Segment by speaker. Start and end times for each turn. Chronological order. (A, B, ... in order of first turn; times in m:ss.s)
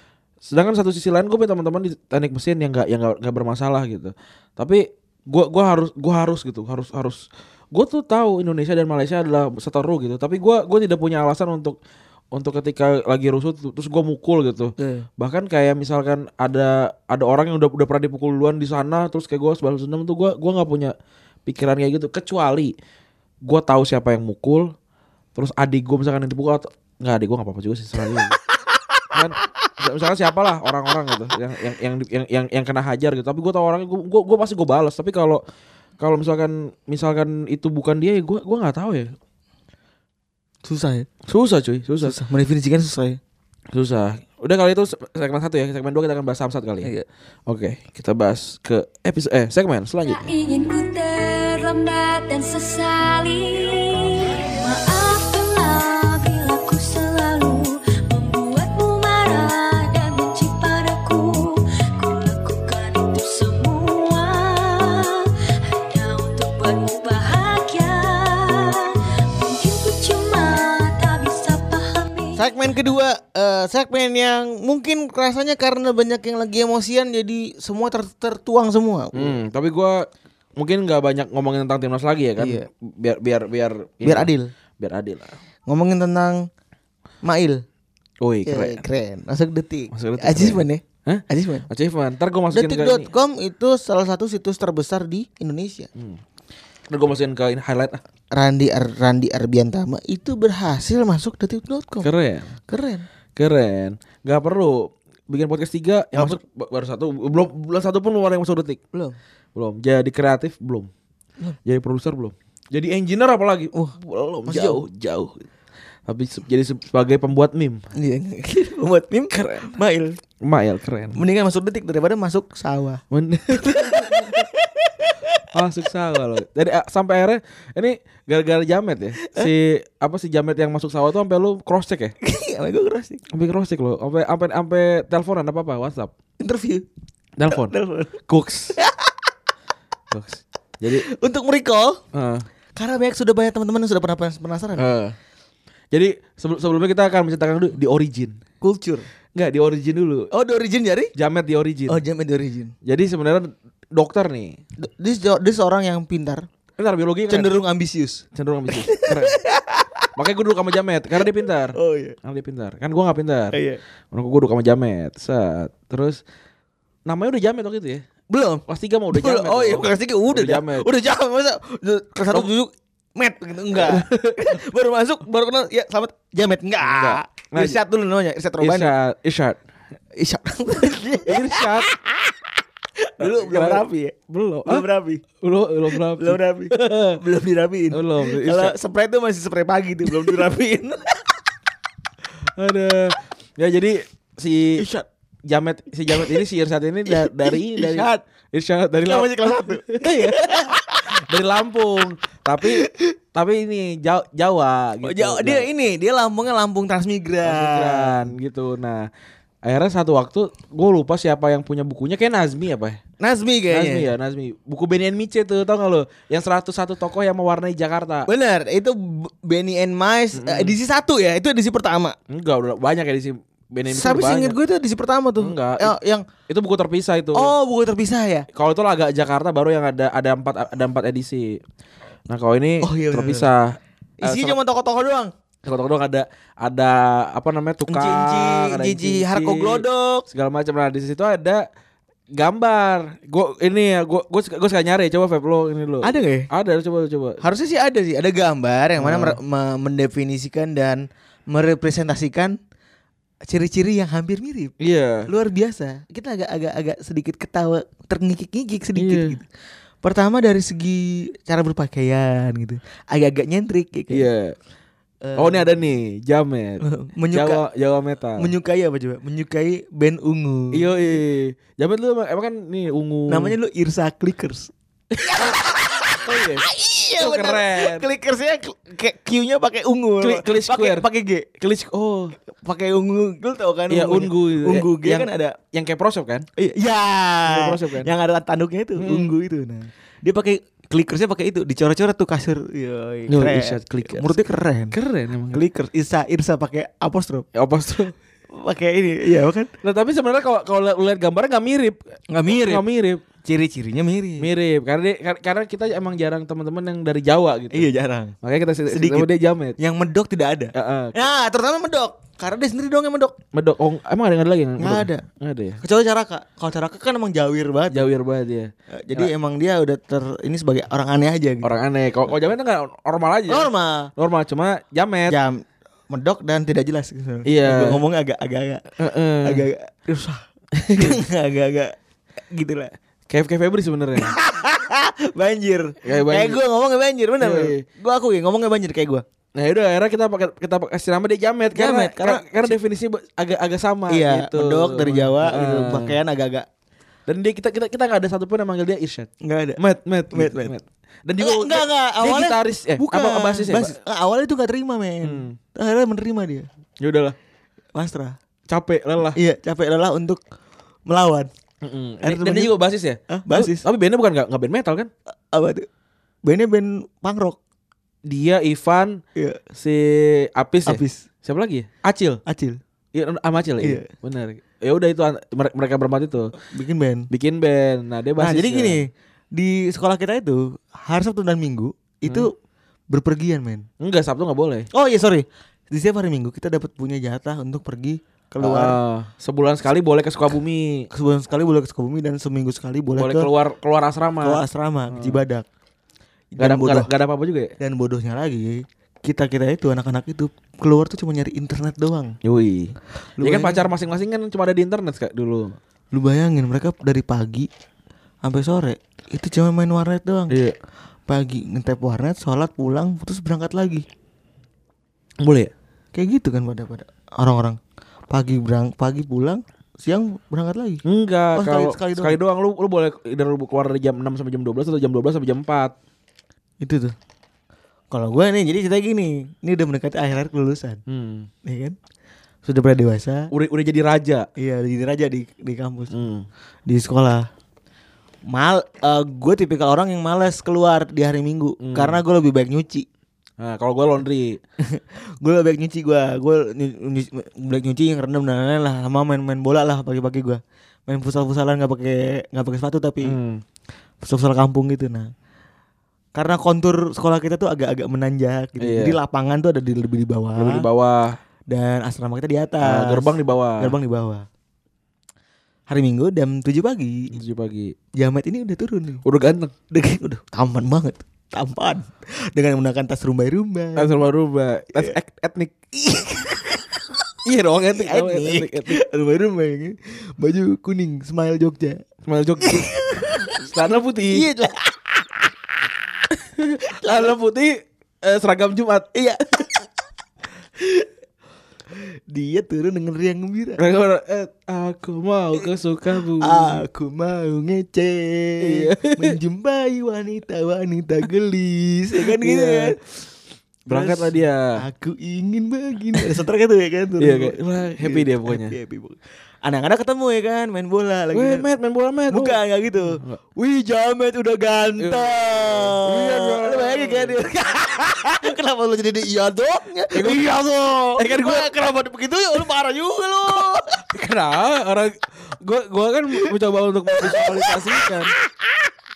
0:00.5-0:11.8 A
0:12.3-0:20.9 A
0:14.8-0:15.1 B
0:21.5-0:22.7 A
0:23.4-0:24.7 A
0:25.4-0:28.4 A
0:29.1-0:35.4 A
0:36.0-0:39.1 A
0:40.6-0:41.1 B
0:41.3-0:42.2 A
0:42.0-0:43.2 B
0:43.7-0:46.9 A
0:47.5-0:50.2 A
0:50.1-1:05.3 C
1:05.9-1:12.5 C
1:12.4-1:19.4 B
1:19.1-1:20.0 A
1:20.6-1:25.4 A
1:22.4-1:22.7 B
1:24.0-1:24.5 B
1:25.7-1:26.5 B
1:27.2-1:27.6 B
1:28.2-1:28.8 A
1:28.5-1:31.7 B
1:29.9-1:33.1 A
1:32.5-1:35.9 B
1:36.0-1:36.2 A
1:36.9-1:38.0 A
1:38.4-1:42.1 B
1:42.0-1:42.5 A
1:42.7-1:43.1 B
1:43.4-1:48.8 A
1:49.6-1:50.9 A
1:51.6-1:53.7 A
1:53.7-1:54.8 B
1:54.4-1:55.4 A
1:56.1-1:57.8 A
1:58.0-2:00.2 B
1:59.3-1:59.8 A
2:00.4-2:01.2 A
2:01.2-2:03.0 B
2:03.1-2:04.4 A
2:03.5-2:05.4 B
2:05.5-2:12.1 A
2:12.2-2:13.2 B
2:13.3-2:16.1 A
2:16.4-2:16.9 B
2:17.4-2:17.8 A
2:17.5-2:18.2 B
2:18.3-2:18.8 A
2:18.8-2:19.3 B
2:20.1-2:21.1 A
2:21.1-2:22.0 B
2:22.1-2:22.4 A
2:22.8-2:24.9 B
2:24.8-2:25.2 A
2:25.9-2:28.4 A
2:28.6-2:29.1 B
2:29.4-2:30.3 A
2:30.3-2:31.1 B
2:31.2-2:32.0 A
2:31.9-2:32.7 B
2:32.8-2:34.6 A
2:34.8-2:36.5 B
2:36.8-2:37.6 A
2:37.3-2:40.1 B
2:38.4-2:39.4 A
2:40.2-2:43.6 A
2:41.2-2:42.2 B
2:43.5-2:43.8 B
2:44.1-2:46.2 A
2:47.1-2:48.0 A
2:48.3-2:58.9 B
2:48.7-2:50.9 A
2:53.8-2:54.5 A
2:56.8-2:57.8 A
2:58.6-2:59.6 A
3:00.2-3:02.4 B
3:01.3-3:01.9 A
3:03.0-3:04.2 B
3:03.2-3:04.8 A
3:04.7-3:05.2 B
3:05.4-3:07.2 A
3:05.9-3:11.3 B
3:07.9-3:08.7 A
3:12.6-3:14.8 A
3:14.8-3:15.1 B
3:15.5-3:20.6 A
3:16.1-3:16.4 B
3:17.1-3:18.2 B
3:19.0-3:21.1 B
3:21.2-3:25.7 A
3:22.6-3:23.1 B
3:25.0-3:28.3 B
3:27.4-3:29.1 A
3:29.6-3:33.0 A
3:33.2-3:34.1 B
3:33.7-3:38.3 A
3:38.3-3:42.2 B
3:40.3-3:40.8 A
3:42.3-3:44.6 A
3:43.9-3:46.3 B
3:45.4-3:45.9 A
3:46.5-3:47.5 A
3:47.3-3:48.5 B
3:48.5-3:51.6 A
3:52.3-3:54.6 A
3:52.8-3:53.5 B
3:54.2-3:55.3 B
3:55.6-4:01.6 A
3:57.9-4:00.2 B
4:02.4-4:07.4 A
4:06.0-4:06.5 B
4:07.4-4:12.6 B
4:09.0-4:09.4 A
4:13.5-4:14.7 B
4:14.8-4:15.3 A
4:15.3-4:19.5 B
4:19.0-4:19.4 A
4:20.0-4:24.3 B
4:24.1-4:24.6 A
4:25.2-4:25.7 B
4:25.4-4:28.5 A
4:26.8-4:27.6 B
4:28.4-4:30.9 B
4:30.7-4:33.6 A
4:33.3-4:34.7 B
4:35.2-4:35.4 A
4:35.2-4:41.5 B
4:36.2-4:36.7 A
4:37.2-4:38.1 A
4:40.2-4:41.0 A
4:41.6-4:42.4 A
4:42.5-4:45.6 B
4:43.9-4:46.5 A
4:46.6-4:54.9 B
4:47.5-4:48.1 A
4:49.0-4:49.3 A
4:53.3-4:54.4 A
4:54.9-4:55.6 A
4:55.5-4:57.5 B
4:57.6-4:58.1 A
4:58.6-4:59.7 B
4:59.8-5:03.2 A
5:02.3-5:02.9 B
5:03.4-5:04.5 B
5:04.4-5:07.9 A
5:07.7-5:08.4 B
5:08.4-5:09.8 A
5:08.9-5:13.4 B
5:10.7-5:11.2 A
5:13.5-5:15.8 A
5:14.8-5:15.2 B
5:15.8-5:18.1 B
5:17.9-5:19.3 A
5:18.9-5:21.7 B
5:21.6-5:25.4 A
5:23.5-5:24.1 B
5:25.3-5:28.8 B
5:27.5-5:28.0 A
5:29.0-5:29.6 A
5:29.4-5:32.0 B
5:30.8-5:31.2 A
5:32.5-5:32.9 B
5:33.3-5:34.4 A
5:34.2-5:39.2 B
5:36.0-5:36.6 A
5:37.4-5:37.8 A
5:39.6-5:46.2 A
5:41.8-5:42.8 B
5:44.1-5:46.7 B
5:47.3-5:53.9 A
5:49.4-5:49.8 B
5:50.3-5:50.7 B
5:51.4-5:56.7 B
5:55.2-5:55.6 A
5:57.0-5:57.4 A
5:58.0-5:58.4 B
5:58.7-5:59.4 A
5:59.4-6:00.4 B
6:01.1-6:01.5 B
6:01.8-6:05.1 A
6:02.2-6:02.8 B
6:03.3-6:03.8 B
6:05.5-6:05.9 B
6:06.4-6:07.6 B
6:08.3-6:09.2 A
6:09.8-6:12.4 A
6:10.8-6:11.3 B
6:12.5-6:12.8 B
6:13.1-6:16.5 A
6:13.8-6:14.1 B
6:16.7-6:17.3 B
6:17.3-6:19.0 A
6:18.4-6:22.5 B
6:23.1-6:23.9 B
6:24.0-6:24.9 A
6:24.9-6:29.0 B
6:28.6-6:31.1 A
6:31.1-6:33.5 B
6:33.2-6:35.4 A
6:34.4-6:35.6 B
6:36.5-6:37.1 B
6:36.6-6:37.7 A
6:37.8-6:42.4 B
6:42.4-6:45.8 A
6:43.4-6:43.8 B
6:46.1-6:47.7 B
6:48.4-6:50.6 B
6:50.5-6:50.8 A
6:51.3-6:54.1 B
6:55.4-6:55.7 A
6:56.1-6:57.8 B
6:58.3-7:01.0 B
7:01.0-7:06.0 A
7:01.6-7:02.4 B
7:06.8-7:07.1 B
7:08.1-7:11.0 B
7:11.1-7:11.5 A
7:11.6-7:12.0 B
7:12.6-7:13.5 B
7:13.5-7:14.5 A
7:14.6-7:16.1 B
7:16.1-7:16.5 A
7:16.9-7:17.5 B
7:18.5-7:23.1 B
7:21.8-7:22.2 A
7:23.6-7:24.6 A
7:24.8-7:33.4 B
7:33.2-7:33.6 A
7:34.2-7:35.3 B
7:36.4-7:40.9 B
7:38.8-7:39.2 A
7:40.6-7:41.4 A
7:41.7-7:44.5 B
7:42.8-7:44.0 A
7:45.9-7:47.3 B
7:47.3-7:47.9 A
7:48.2-7:49.2 B
7:49.2-7:49.7 A
7:49.9-7:54.2 B
7:54.0-7:55.7 A
7:56.0-7:57.0 B
7:57.4-7:59.0 A
7:58.0-8:02.0 B
8:02.3-8:02.9 A
8:02.6-8:03.7 B
8:03.6-8:04.4 A
8:04.3-8:05.5 B
8:06.6-8:09.1 A
8:06.9-8:07.4 B
8:09.1-8:09.9 B
8:10.8-8:11.1 B
8:11.9-8:13.8 B
8:13.8-8:16.8 A
8:16.4-8:23.0 B
8:18.6-8:19.4 A
8:22.2-8:23.0 A
8:23.9-8:31.7 B
8:23.9-8:24.7 A
8:27.2-8:28.8 A
8:31.3-8:33.4 A
8:32.3-8:43.9 B
8:35.0-8:37.4 A
8:40.1-8:41.7 A
8:44.0-8:48.3 A
8:47.1-8:48.7 B